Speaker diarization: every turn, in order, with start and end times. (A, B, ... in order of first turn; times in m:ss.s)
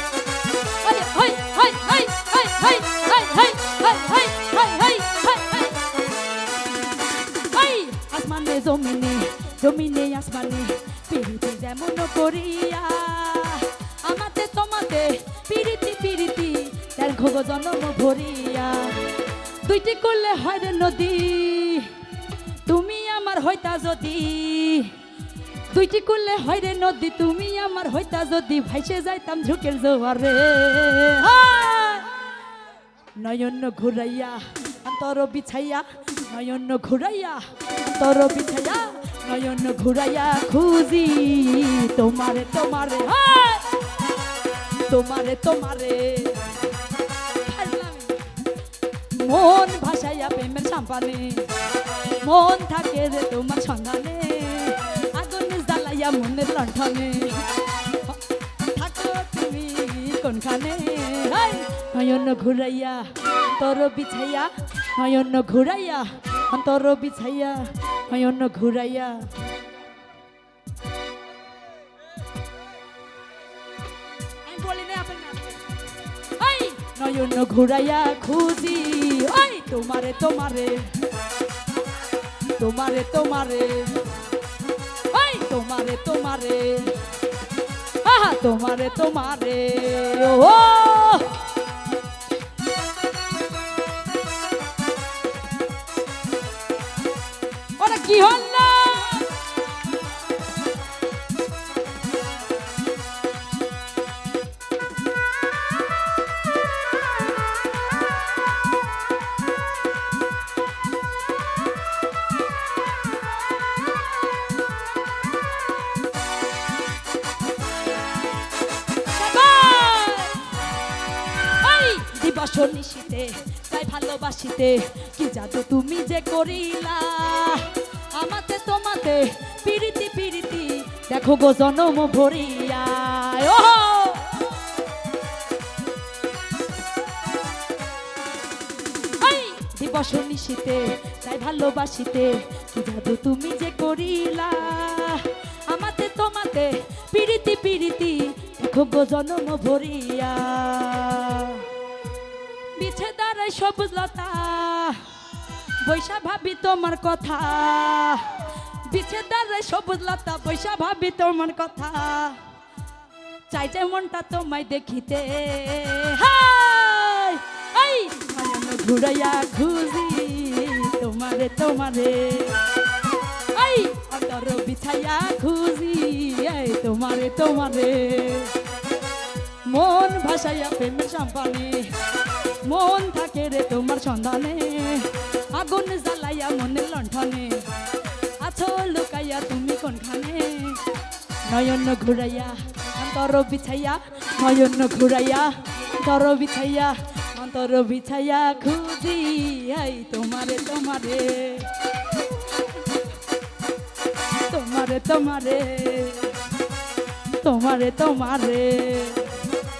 0:00.7-0:05.9 A
0:07.4-0:22.0 A
0:22.6-0:25.0 A
0:25.7-0:32.1 A
0:33.1-0:43.8 A
0:44.8-0:46.6 A
0:47.3-0:48.4 A
0:49.1-1:09.3 A
1:14.4-1:15.6 A
1:16.3-1:21.0 A
1:22.6-1:24.2 A
1:25.0-1:27.1 A
1:28.0-1:31.4 A
1:37.8-1:39.4 A
1:59.1-2:00.5 A
2:01.4-2:14.5 A
2:19.1-2:31.7 A
2:32.8-2:35.1 A
2:35.8-2:42.4 A
2:43.5-2:52.6 A
2:53.5-2:58.6 A
2:59.6-3:01.9 A
3:02.5-3:07.8 A
3:08.4-3:10.8 A
3:11.4-3:21.7 A
3:24.4-3:26.5 A
3:27.3-3:29.4 A